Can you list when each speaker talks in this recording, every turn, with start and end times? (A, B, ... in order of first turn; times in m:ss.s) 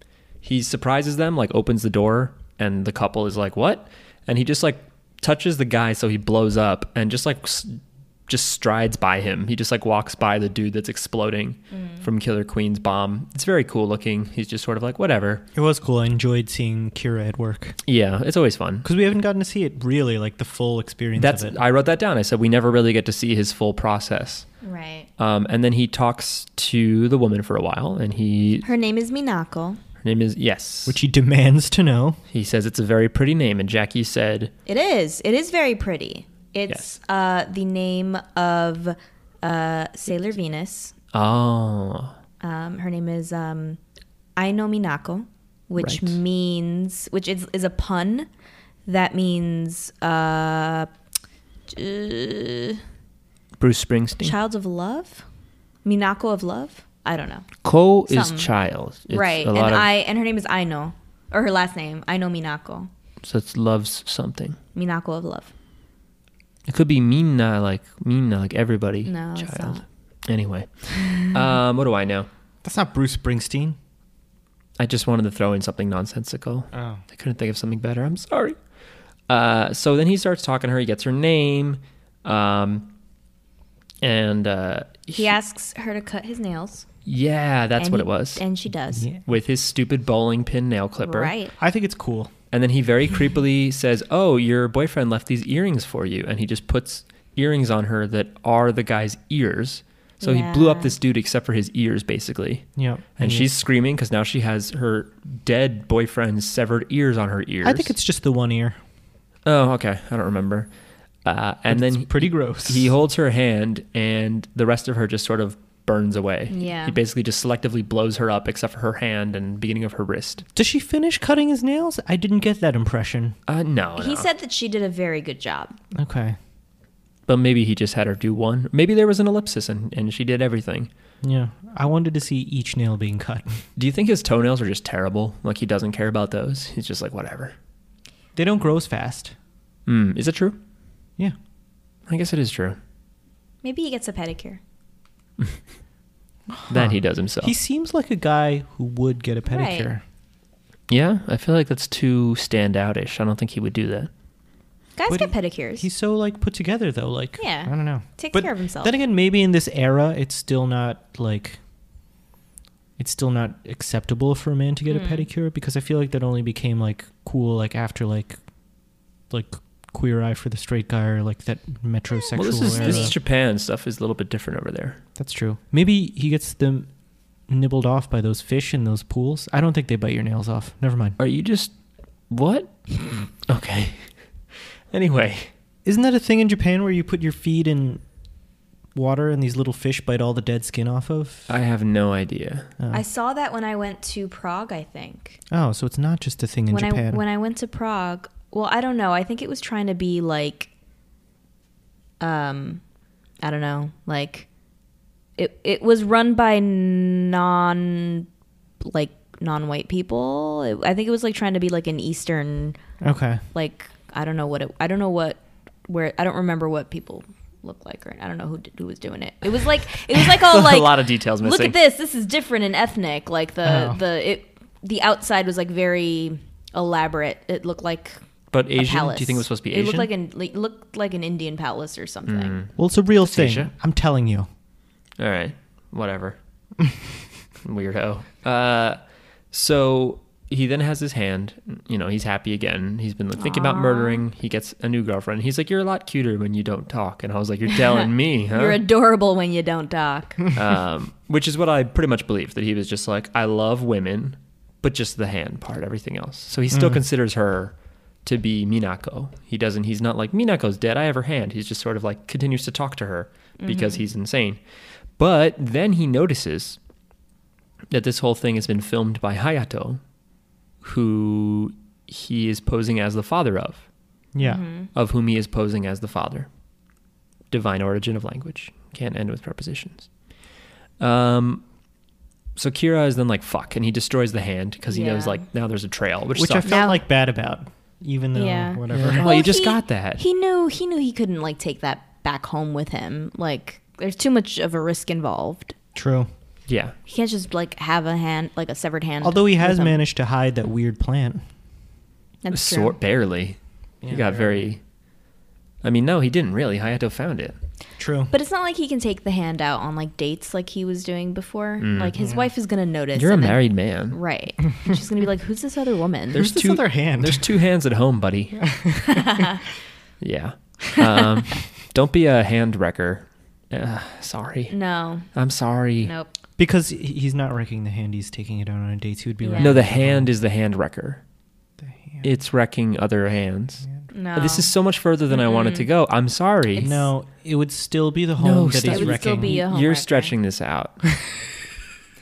0:00.4-0:15.4 A
0:11.8-0:12.0 B
0:15.5-0:17.8 C
0:17.8-0:18.8 A
0:18.8-0:21.6 C
0:21.2-0:24.4 A
0:24.6-0:25.1 B
0:25.2-0:28.6 A
0:28.6-0:29.8 B
0:30.0-0:31.0 A
0:30.9-0:32.2 C
0:32.3-0:34.5 A
0:34.6-0:40.9 B
0:36.7-0:37.0 A
0:41.1-0:42.1 A
0:42.4-0:43.8 B
0:44.4-0:48.3 B
0:45.8-0:46.2 A
0:48.8-0:50.9 B
0:51.7-0:52.8 B
0:53.6-0:54.4 A
0:54.2-0:55.2 B
0:55.8-0:57.5 B
0:57.6-0:59.9 A
0:58.1-0:58.5 B
0:59.1-1:02.9 B
1:03.2-1:04.6 A
1:04.7-1:05.5 B
1:06.7-1:12.3 A
1:09.0-1:09.8 B
1:12.6-1:13.8 C
1:14.8-1:18.6 A
1:16.7-1:17.0 C
1:19.3-1:22.9 A
1:24.0-1:25.3 A
1:25.1-1:26.8 B
1:27.0-1:28.4 A
1:27.8-1:29.1 B
1:29.2-1:31.3 A
1:31.0-1:31.5 B
1:31.6-1:32.3 C
1:32.5-1:47.9 A
1:40.2-1:40.9 B
1:42.8-1:43.5 C
1:47.6-1:48.8 C
1:49.4-1:50.7 A
1:51.2-2:00.4 A
1:51.7-1:52.9 C
1:56.5-1:57.0 B
2:00.5-2:03.4 C
2:03.5-2:04.3 A
2:04.0-2:05.8 B
2:05.9-2:06.4 C
2:07.3-2:10.9 A
2:11.2-2:13.6 C
2:13.8-2:17.5 A
2:18.4-2:19.3 C
2:19.8-2:20.6 A
2:22.1-2:22.8 A
2:23.6-2:24.6 B
2:26.5-2:30.0 C
2:26.7-2:27.5 A
2:29.4-2:29.9 B
2:30.9-2:34.1 A
2:35.0-2:35.8 B
2:35.1-2:41.6 C
2:37.4-2:38.9 B
2:43.0-2:48.4 C
2:44.9-2:45.3 B
2:49.3-2:53.1 C
2:52.3-2:55.0 A
2:52.6-2:53.1 B
2:55.2-2:56.9 C
2:57.5-3:01.2 C
3:01.2-3:01.7 A
3:02.3-3:04.1 A
3:04.9-3:05.5 A
3:05.8-3:08.0 C
3:08.9-3:11.5 C
3:11.5-3:12.7 A
3:12.8-3:13.0 C
3:12.9-3:15.4 B
3:15.5-3:17.2 C
3:16.7-3:20.7 B
3:22.2-3:22.8 B
3:23.4-3:24.5 B
3:25.4-3:28.3 B
3:28.8-3:32.8 B
3:33.0-3:33.4 C
3:33.5-3:48.2 B
3:40.1-3:41.8 A
3:43.6-3:44.0 C
3:48.5-3:50.1 A
3:48.7-3:52.6 B
3:52.3-3:53.7 A
3:52.8-3:54.5 C
3:55.2-3:56.4 A
3:57.6-3:59.0 A
3:59.5-4:08.8 A
4:03.4-4:04.2 B
4:07.7-4:10.5 B
4:10.5-4:24.6 A
4:16.7-4:17.0 C
4:23.6-4:24.0 B
4:25.2-4:26.8 A
4:27.9-4:30.0 A
4:30.8-4:33.8 A
4:34.3-4:34.6 C
4:34.4-4:34.9 B
4:34.9-4:36.5 A
4:37.5-4:40.1 A
4:41.0-4:41.6 A
4:42.6-4:46.8 A
4:44.9-4:45.4 B
4:46.3-4:49.3 C
4:46.6-4:47.0 B
4:48.3-4:55.7 B
4:48.9-4:50.2 A
4:55.9-4:56.3 C
4:56.7-4:56.9 A
4:57.0-5:00.0 B
4:59.2-5:01.4 C
5:02.4-5:03.0 B
5:02.5-5:04.8 A
5:04.0-5:04.6 C
5:05.8-5:07.6 A
5:08.0-5:08.3 C
5:08.3-5:16.4 B
5:11.8-5:12.1 A
5:12.2-5:12.5 C
5:13.1-5:14.2 A
5:16.3-5:18.7 A
5:16.3-5:17.5 C
5:18.7-5:19.2 C
5:19.1-5:19.6 B
5:20.2-5:24.8 A
5:24.7-5:25.3 B
5:25.3-5:26.1 A
5:26.0-5:26.3 B
5:26.6-5:30.3 C
5:29.4-5:29.8 B
5:29.6-5:31.2 A
5:32.2-5:36.9 A
5:34.1-5:34.7 B
5:35.3-5:35.9 B
5:36.7-5:37.1 B
5:36.8-5:39.5 C
5:38.4-5:41.0 A
5:38.9-5:40.3 B